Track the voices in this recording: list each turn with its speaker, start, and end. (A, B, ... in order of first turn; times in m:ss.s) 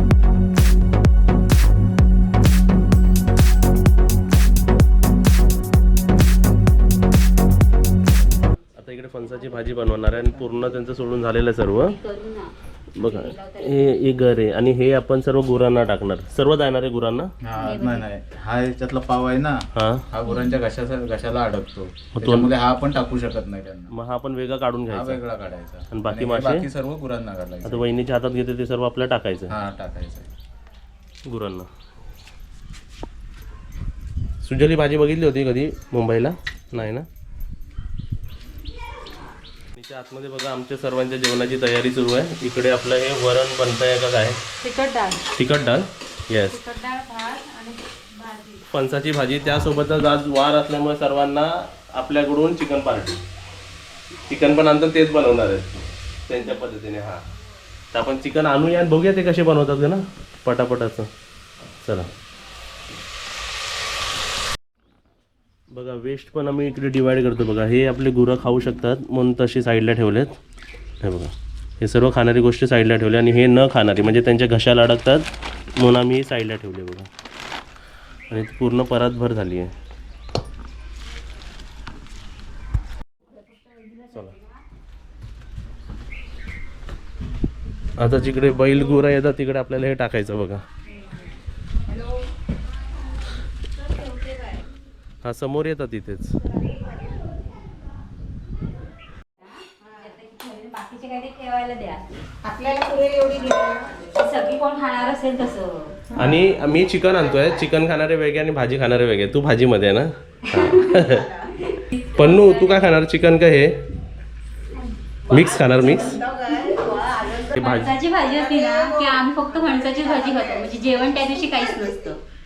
0:08.8-0:12.0 A
0:11.8-0:14.0 B
0:13.0-0:17.3 A
0:17.4-0:23.9 C
0:17.6-0:18.1 B
0:19.8-0:20.0 A
0:22.2-0:22.5 A
0:23.9-0:25.2 A
0:24.9-0:27.8 C
0:25.9-0:26.7 A
0:27.6-0:29.6 A
0:29.5-0:30.3 C
0:31.3-0:31.7 A
0:34.4-0:37.1 A
0:39.8-0:44.4 A
0:44.6-0:45.2 D
0:45.4-0:46.6 A
0:46.5-0:48.6 D
0:48.7-0:53.2 A
0:54.3-0:57.2 A
0:57.9-1:01.1 A
1:01.8-1:02.1 A
1:05.7-1:10.4 A
1:11.0-1:17.1 A
1:18.3-1:19.7 A
1:23.3-1:24.6 B
1:28.0-1:30.6 A
1:30.9-1:31.3 E
1:33.8-1:34.6 E
1:35.2-1:36.4 A
1:39.4-1:42.0 B
1:39.8-1:40.1 E
1:42.4-1:44.0 E
1:44.2-1:46.0 B
1:46.1-1:46.4 E
1:46.2-1:51.3 A
1:47.1-1:47.6 E
1:50.6-1:51.6 E
1:51.9-1:53.0 B
1:52.1-1:53.9 A
1:55.3-1:56.2 A
1:55.3-2:00.9 E
1:57.6-1:58.0 A
1:57.6-2:02.2 B